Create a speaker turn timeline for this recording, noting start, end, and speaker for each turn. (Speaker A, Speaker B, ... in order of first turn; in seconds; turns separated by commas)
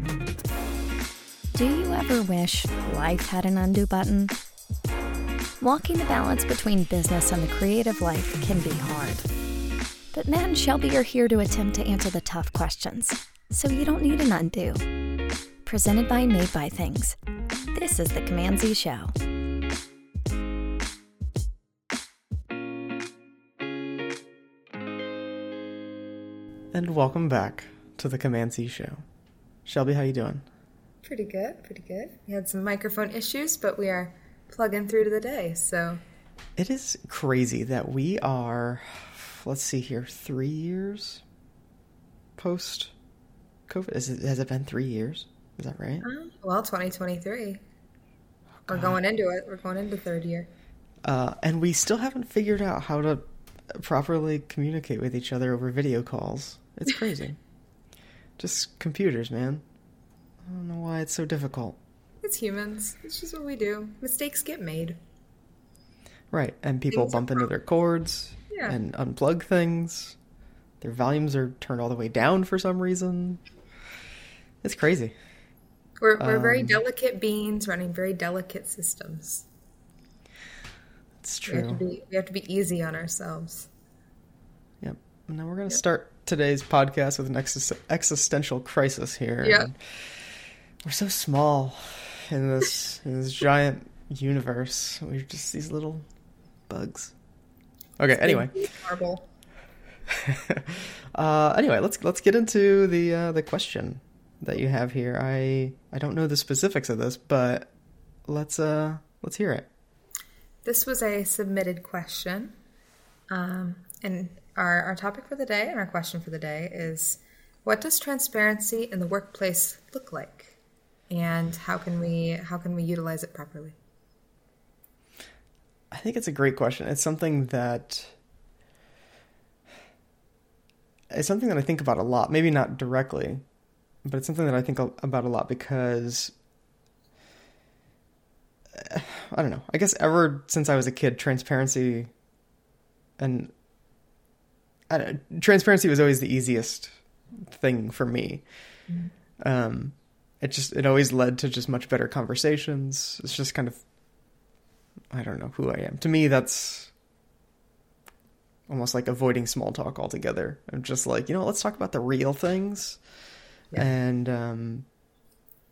Speaker A: 1.5-4.3, Speaker A: 5.6-9.3, Speaker A: 10.1-14.8, Speaker A: 15.6-17.1, Speaker A: 17.7-19.1, Speaker B: 26.7-29.0, Speaker B: 29.6-30.4, Speaker C: 31.0-36.0, Speaker B: 36.6-41.2, Speaker B: 42.4-42.9, Speaker B: 43.7-46.1, Speaker C: 46.0-47.6, Speaker B: 48.7-49.0, Speaker C: 48.7-50.5, Speaker B: 51.0-53.2, Speaker B: 53.7-57.4, Speaker B: 58.4-59.6, Speaker B: 60.4-61.8, Speaker C: 62.2-65.0, Speaker B: 66.3-70.2, Speaker C: 66.9-67.5, Speaker C: 68.5-68.8, Speaker B: 70.8-73.4, Speaker B: 74.6-75.1, Speaker C: 76.0-79.5, Speaker B: 76.2-76.8, Speaker B: 81.2-81.8, Speaker C: 81.5-83.7, Speaker B: 84.8-90.2, Speaker C: 89.4-89.7, Speaker B: 90.8-96.0, Speaker B: 96.7-97.1, Speaker B: 98.0-98.7, Speaker C: 98.2-99.2, Speaker B: 100.1-107.7, Speaker B: 108.3-109.7, Speaker C: 110.6-112.5, Speaker C: 113.3-120.6, Speaker C: 121.1-123.8, Speaker B: 125.9-128.1, Speaker B: 131.1-133.4, Speaker B: 134.0-136.3, Speaker B: 138.7-142.1, Speaker B: 143.2-143.5, Speaker B: 144.9-146.9, Speaker B: 147.5-148.4, Speaker B: 149.4-153.8, Speaker B: 155.1-156.9, Speaker B: 158.7-163.0, Speaker B: 163.7-164.8